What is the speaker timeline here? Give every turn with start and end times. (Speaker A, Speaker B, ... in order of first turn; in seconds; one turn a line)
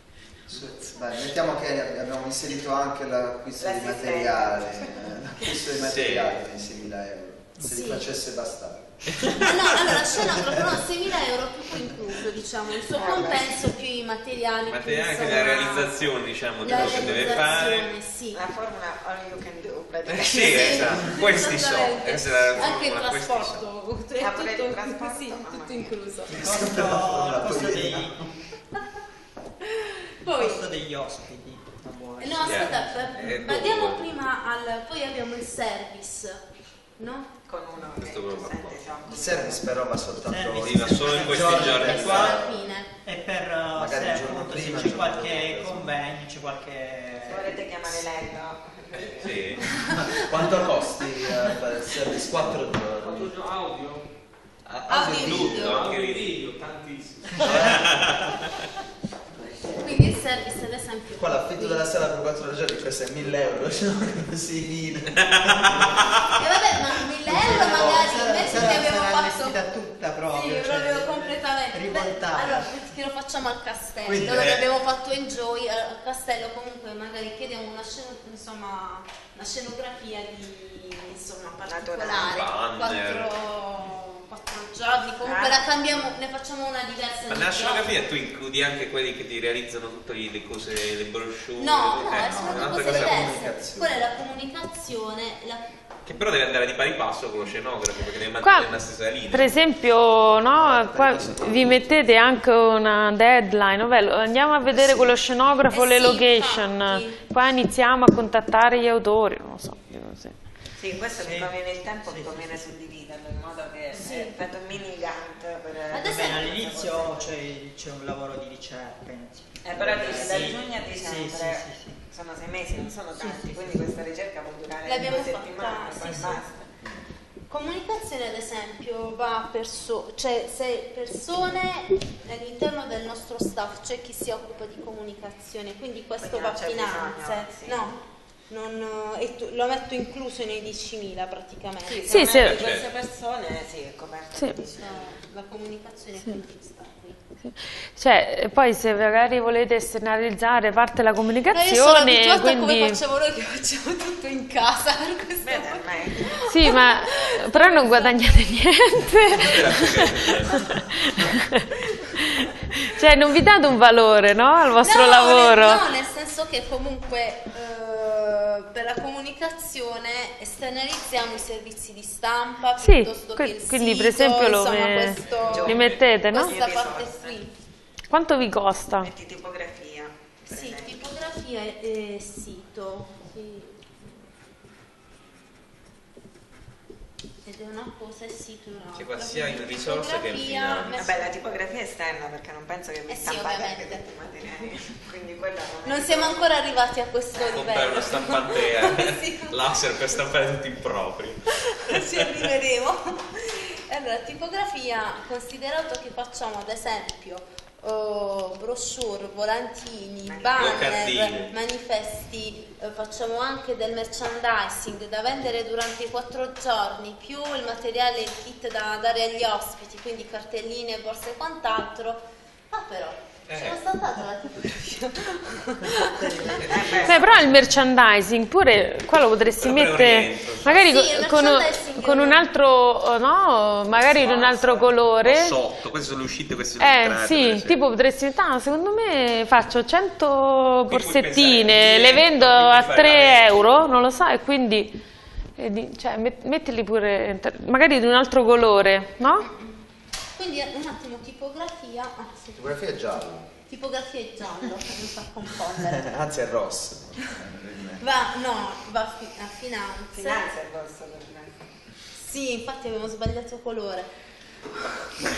Speaker A: 0.5-0.8
Speaker B: 0.5-10.8
Speaker C: 3.6-5.6
Speaker A: 5.8-6.3
Speaker D: 7.6-8.1
Speaker A: 9.2-9.5
Speaker D: 9.4-16.1
Speaker C: 12.9-13.6
Speaker B: 13.1-13.4
Speaker A: 14.7-17.9
Speaker D: 16.6-18.4
Speaker B: 16.8-17.1
Speaker C: 17.2-21.1
Speaker A: 20.1-23.6
Speaker D: 20.3-26.4
Speaker C: 24.2-25.9
Speaker E: 26.3-28.3
Speaker B: 26.3-28.2
Speaker D: 30.2-30.7
Speaker E: 30.2-33.4
Speaker D: 32.2-36.4
Speaker A: 32.4-34.1
Speaker D: 37.0-37.3
Speaker C: 37.5-39.6
Speaker A: 38.0-38.8
Speaker B: 39.1-42.6
Speaker E: 40.1-42.5
Speaker A: 40.6-42.4
Speaker D: 41.5-42.9
Speaker E: 43.0-47.7
Speaker B: 43.8-45.8
Speaker A: 44.8-45.8
Speaker C: 47.2-49.6
Speaker A: 49.1-49.6
Speaker D: 49.8-50.2
Speaker B: 50.0-53.4
Speaker A: 53.0-54.0
Speaker B: 54.6-55.9
Speaker D: 54.9-56.0
Speaker A: 55.2-58.5
Speaker B: 57.4-58.2
Speaker D: 59.8-61.9
Speaker B: 61.2-66.1
Speaker A: 65.2-66.4
Speaker D: 66.3-69.7
Speaker E: 67.3-72.9
Speaker D: 70.3-88.0
Speaker B: 74.1-74.6
Speaker A: 74.2-74.7
Speaker C: 81.6-82.5
Speaker A: 82.2-83.3
Speaker C: 85.2-85.7
Speaker A: 87.3-93.3
Speaker D: 91.6-95.7
Speaker B: 92.3-94.1
Speaker A: 96.1-99.5
Speaker F: 98.4-98.7
Speaker F: 99.3-110.3
Speaker B: 100.5-102.1
Speaker B: 104.8-105.1
Speaker D: 105.7-107.2
Speaker C: 110.8-117.3
Speaker E: 111.1-112.5
Speaker D: 113.9-114.4
Speaker D: 115.9-116.9
Speaker E: 116.0-122.0
Speaker C: 119.6-126.7
Speaker E: 123.2-123.6
Speaker D: 124.8-126.3
Speaker D: 127.5-142.0
Speaker C: 136.2-137.9
Speaker C: 141.8-145.2
Speaker F: 142.1-142.6
Speaker A: 142.4-142.9
Speaker D: 144.8-147.2
Speaker F: 147.5-153.0
Speaker D: 151.5-160.6
Speaker C: 155.4-156.7
Speaker F: 156.5-165.8
Speaker A: 159.4-160.8
Speaker D: 164.8-177.5
Speaker F: 172.8-176.5
Speaker A: 175.4-175.9
Speaker C: 175.5-177.4
Speaker F: 178.1-179.1
Speaker C: 179.0-181.1
Speaker D: 180.5-183.9
Speaker D: 187.4-191.3
Speaker A: 188.9-191.0
Speaker C: 191.0-196.5
Speaker D: 193.1-194.1
Speaker D: 195.8-200.0
Speaker C: 197.4-197.7
Speaker A: 197.5-202.4
Speaker D: 201.5-226.8
Speaker C: 210.2-210.9
Speaker A: 210.6-211.5
Speaker A: 223.5-223.8
Speaker E: 226.2-226.9
Speaker C: 226.6-227.6
Speaker A: 226.6-227.4
Speaker F: 227.0-235.6
Speaker A: 229.6-230.8
Speaker D: 230.8-232.5
Speaker A: 234.1-237.8
Speaker F: 236.8-245.0
Speaker A: 240.9-243.9
Speaker F: 245.6-249.5
Speaker D: 249.5-249.8
Speaker D: 250.4-252.6
Speaker B: 252.6-253.5
Speaker D: 253.7-256.2
Speaker B: 256.0-258.0
Speaker D: 258.0-260.5
Speaker C: 260.1-261.8
Speaker D: 262.1-264.1